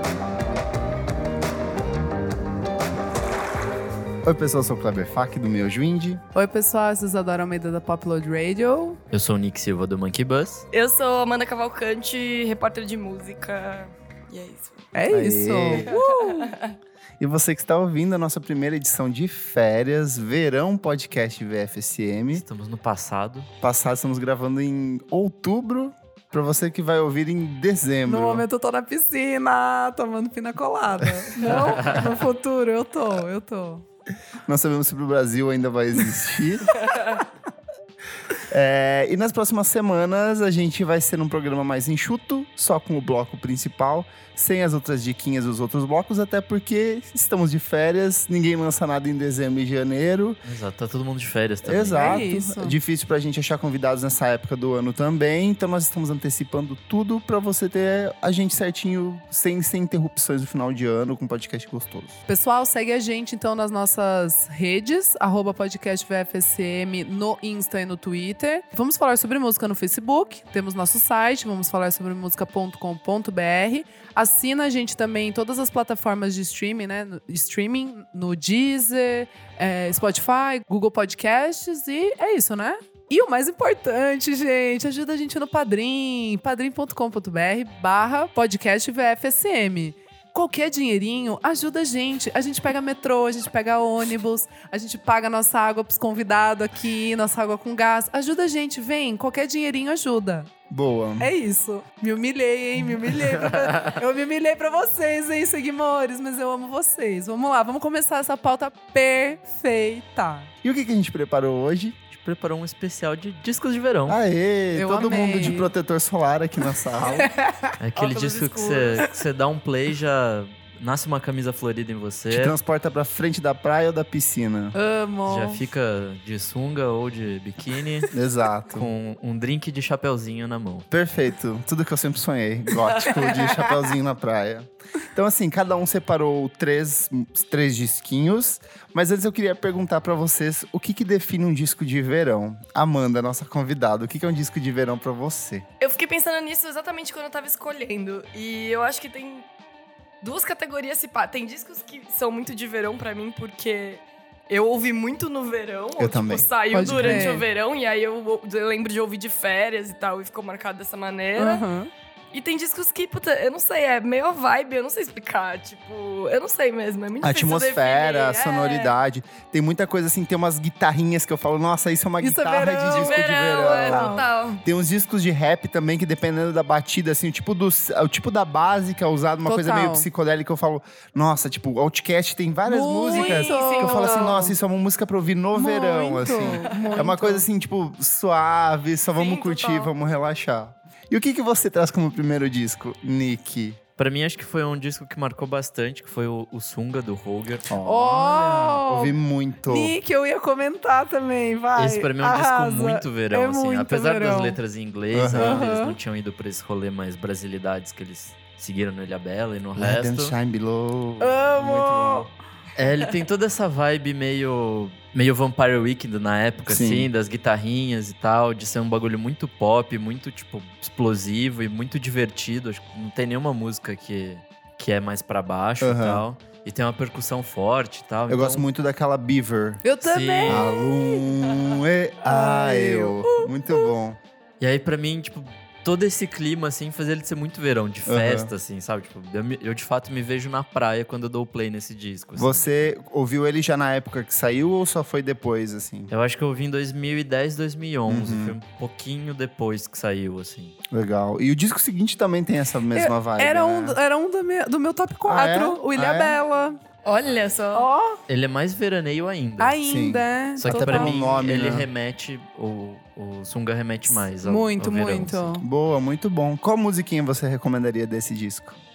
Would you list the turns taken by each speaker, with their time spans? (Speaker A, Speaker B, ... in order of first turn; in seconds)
Speaker A: 4.2-6.2, 15.1-15.9, 17.2-22.4, 23.6-28.5, 34.5-36.7, 38.5-50.4, 51.6-62.2, 100.7-101.3, 110.6-112.0, 114.1-117.3, 122.3-124.8, 128.1-128.9, 130.9-145.7, 156.0-157.3, 167.2-193.8, 197.7-200.0, 205.1-205.7, 209.8-212.3, 216.7-217.1, 225.8-226.2, 228.3-229.8, 230.4-234.2, 238.1-238.5, 242.4-246.1, 248.1-248.6, 250.9-254.0, 255.2-256.4, 259.9-261.9, 265.6-268.8
Speaker B: 6.3-9.0, 14.9-16.5, 28.1-33.8, 52.0-52.8, 62.3-100.5, 101.2-110.5, 114.7-115.7, 117.1-117.8, 124.7-125.6, 156.7-157.5, 161.4-161.9, 172.2-174.3, 179.4-180.1, 182.7-184.6, 185.5-187.4, 197.8-204.6, 205.3-205.9, 211.2-212.3, 229.8-231.0, 232.2-233.9, 252.9-256.8, 257.7-258.2, 259.6-261.2, 264.4-265.6
Speaker C: 9.1-10.7, 22.3-23.5, 31.5-32.2, 50.5-52.2, 103.3-104.0, 112.1-114.2, 117.8-122.5, 125.3-128.1, 128.7-130.9, 194.0-197.7, 201.8-210.4, 212.8-228.7, 230.0-230.7, 234.6-242.9, 246.1-250.8, 258.3-259.8, 260.6-265.6
Speaker D: 10.7-14.9, 15.8-16.8, 118.0-119.1, 133.0-133.7, 145.8-149.5, 150.2-161.7, 162.3-169.0, 172.9-174.6, 183.1-184.4, 186.5-187.1, 189.2-189.9, 257.1-257.9